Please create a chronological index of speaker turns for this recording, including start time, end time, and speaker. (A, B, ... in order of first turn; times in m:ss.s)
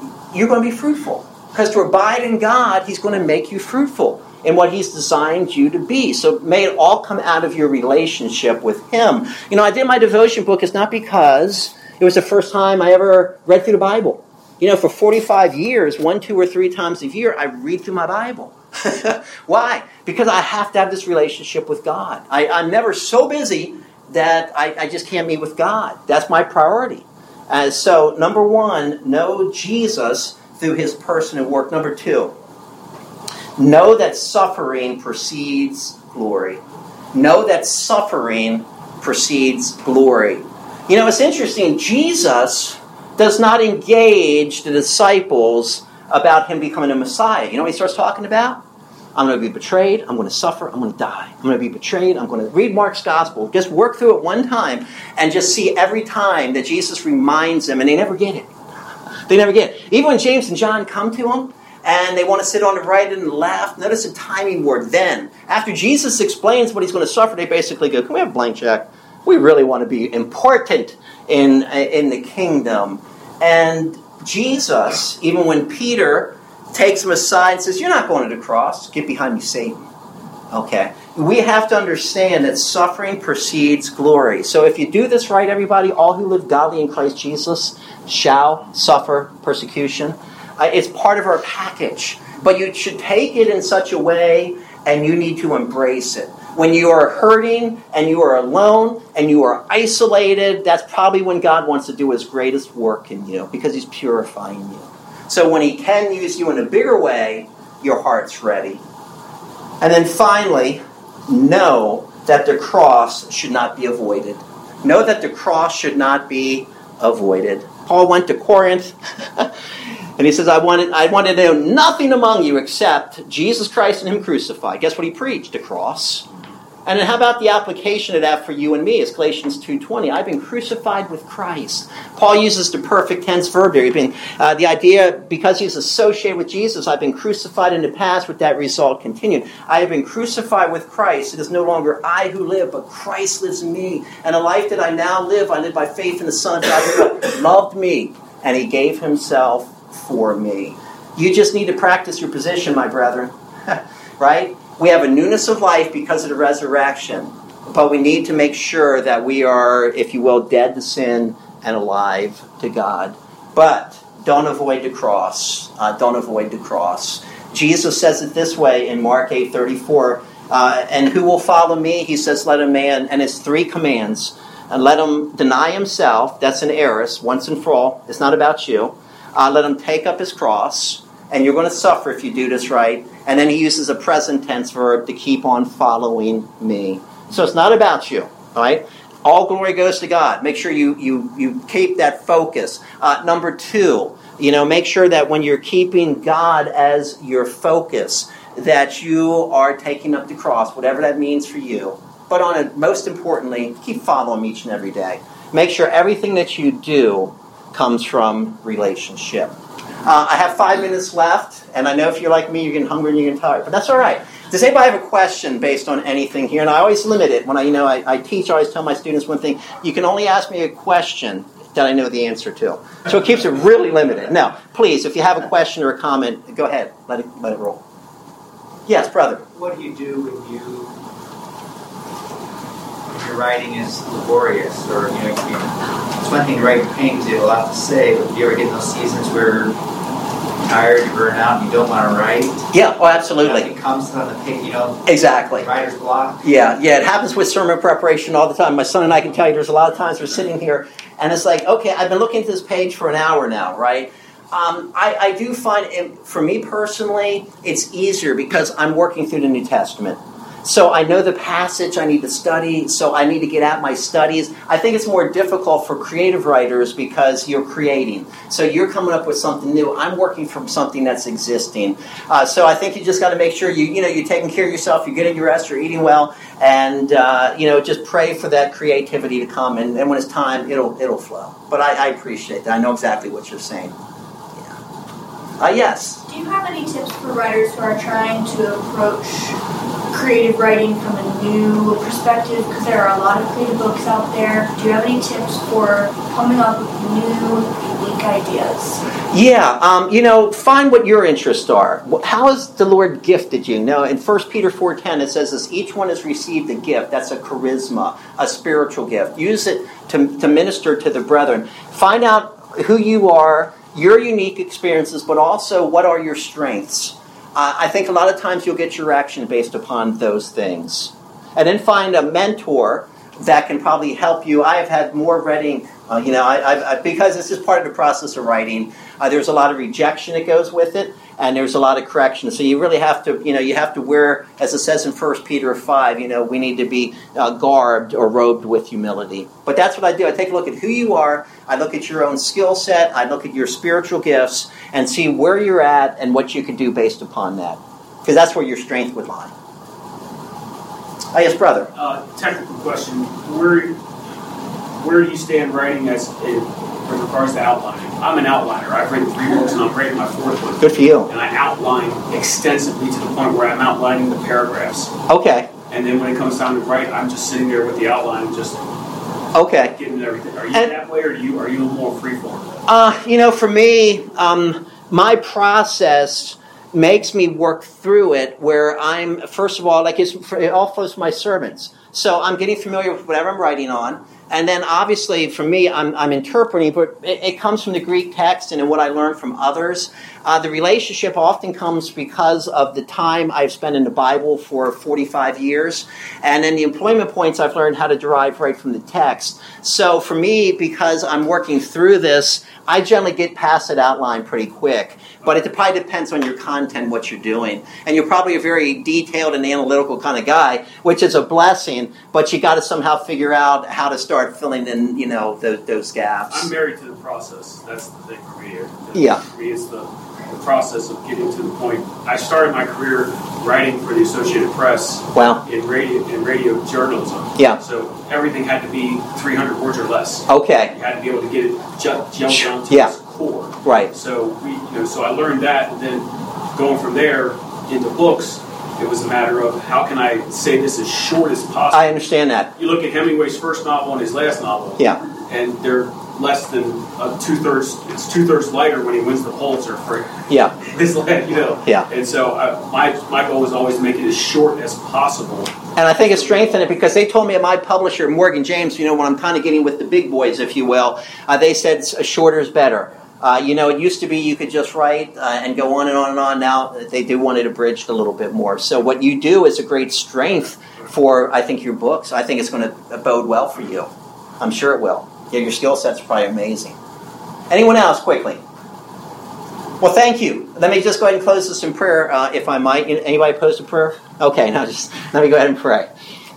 0:00.3-0:32.3 A
0:33.6-0:36.6 A
0:37.1-0:48.6 A
0:49.1-0:58.5 A
0:59.3-1:19.8 A
1:20.5-1:48.8 A
1:49.8-1:59.5 A
2:00.2-2:06.2 A
2:06.8-3:29.5 A
3:30.0-3:47.8 A
3:48.9-3:49.4 A
3:49.5-3:50.9 B
3:53.1-3:59.7 B
4:00.6-4:02.6 B
4:02.7-4:03.7 A
4:03.4-4:05.0 B
4:05.0-4:05.7 A
4:05.6-4:06.4 B
4:06.4-4:43.9 A
4:45.6-4:46.2 A
4:46.3-4:49.5 C
4:50.1-4:59.0 C
4:59.3-5:49.5 A
5:51.3-5:51.9 A
5:51.9-5:54.0 D
5:55.0-6:05.1 D
6:00.8-6:01.3 A
6:05.3-6:05.7 A
6:05.9-6:08.8 D
6:09.5-6:09.9 A
6:09.9-6:12.8 D
6:12.8-6:56.7 A
6:56.5-7:22.2 D
6:59.1-6:59.4 A
7:05.3-7:05.6 A
7:10.5-7:10.9 A
7:12.5-7:13.1 A
7:13.8-7:14.1 A
7:21.9-7:22.7 A
7:22.8-7:35.7 D
7:30.5-7:30.8 A
7:36.0-7:54.1 A
7:54.6-7:57.0 A
7:57.7-7:58.6 A
8:00.0-8:06.1 A